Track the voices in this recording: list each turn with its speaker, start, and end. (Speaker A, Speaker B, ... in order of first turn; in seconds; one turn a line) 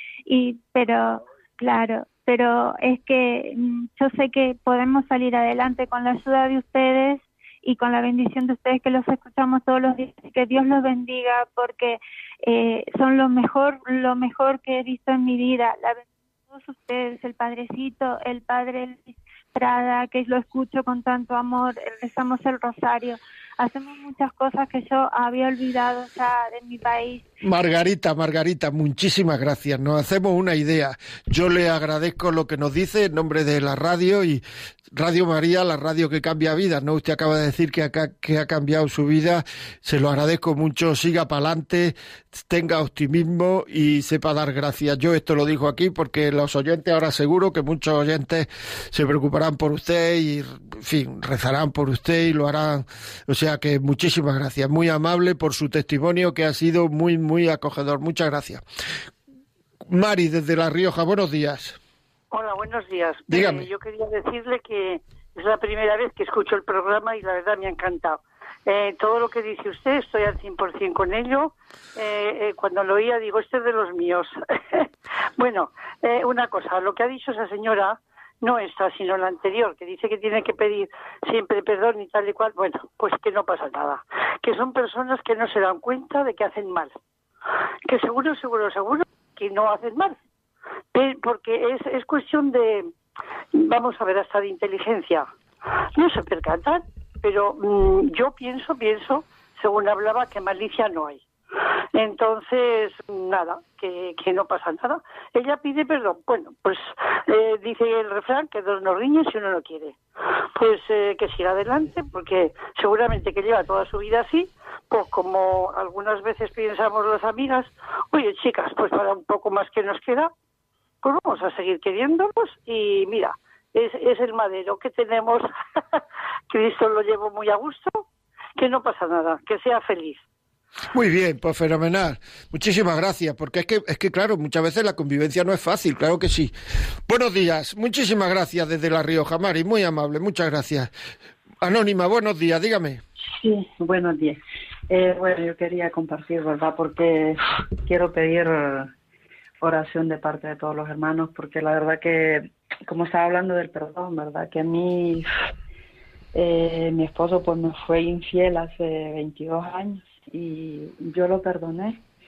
Speaker A: 0.3-27.2
Speaker B: 27.4-58.6
Speaker B: 59.9-61.8
Speaker C: 62.3-87.0
Speaker B: 63.3-63.7
Speaker C: 87.9-90.2
Speaker C: 90.9-92.9
Speaker C: 93.5-95.3
Speaker C: 96.0-101.2
Speaker C: 101.9-110.0
Speaker C: 110.6-120.3
Speaker C: 121.0-128.1
Speaker C: 128.6-130.2
Speaker B: 130.9-136.5
Speaker B: 137.1-140.9
Speaker B: 141.6-143.0
Speaker D: 143.3-148.9
Speaker D: 149.6-155.3
Speaker D: 156.3-162.0